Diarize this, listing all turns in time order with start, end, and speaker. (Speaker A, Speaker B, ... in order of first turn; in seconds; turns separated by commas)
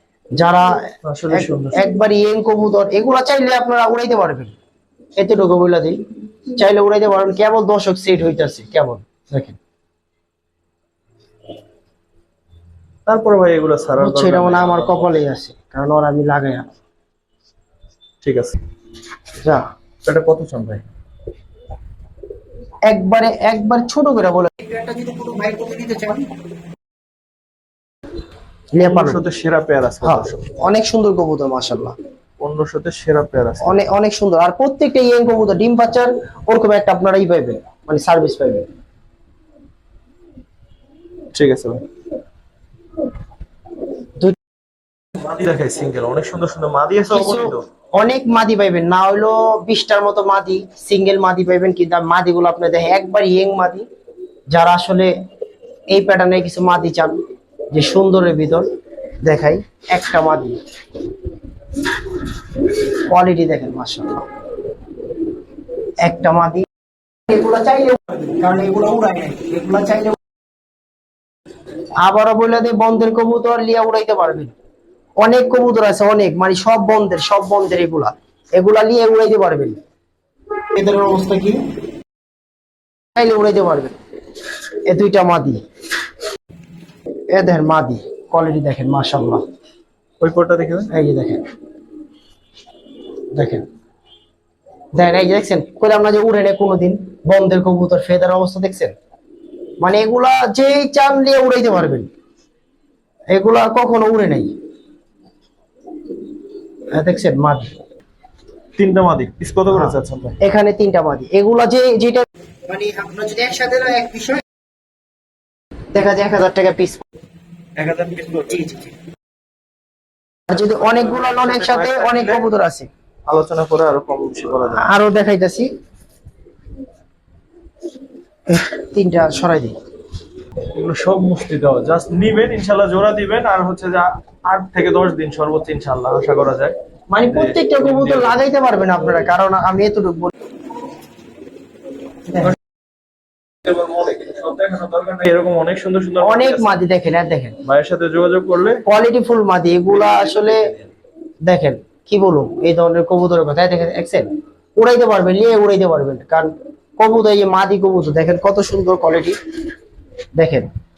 Speaker A: 0.4-4.6, Speaker B: 1.0-1.8, Speaker A: 5.2-6.0, Speaker A: 6.5-9.6, Speaker B: 13.1-15.2, Speaker A: 14.0-16.7, Speaker B: 18.2-18.6, Speaker A: 19.4-19.7, Speaker B: 20.1-20.9, Speaker A: 22.9-26.3, Speaker A: 28.7-29.2, Speaker B: 28.8-30.5, Speaker A: 30.0-32.0, Speaker B: 32.4-33.8, Speaker A: 33.6-38.7, Speaker B: 41.3-41.8, Speaker B: 45.2-47.6, Speaker A: 47.1-53.9, Speaker A: 54.5-55.1, Speaker A: 55.9-58.7, Speaker A: 59.2-60.6, Speaker A: 63.0-64.3, Speaker A: 66.0-66.7, Speaker A: 67.3-70.2, Speaker A: 72.0-74.5, Speaker A: 75.2-79.8, Speaker A: 80.7-81.7, Speaker A: 83.2-84.0, Speaker A: 84.9-85.6, Speaker A: 87.3-89.4, Speaker B: 90.2-90.9, Speaker A: 90.9-91.4, Speaker A: 93.3-93.7, Speaker A: 94.9-99.0, Speaker A: 99.8-102.1, Speaker A: 103.3-104.5, Speaker A: 106.9-107.8, Speaker B: 108.8-110.4, Speaker A: 109.7-114.5, Speaker A: 115.9-117.0, Speaker B: 117.8-118.7, Speaker A: 118.5-118.9, Speaker A: 120.5-122.9, Speaker B: 120.9-122.5, Speaker B: 123.3-124.9, Speaker A: 124.7-125.7, Speaker A: 128.5-129.8, Speaker B: 130.8-138.4, Speaker A: 137.1-140.3, Speaker B: 143.6-146.8, Speaker A: 146.2-147.6, Speaker B: 147.7-148.8, Speaker A: 148.8-150.7, Speaker B: 149.9-150.9, Speaker A: 151.4-159.4, Speaker A: 160.3-160.7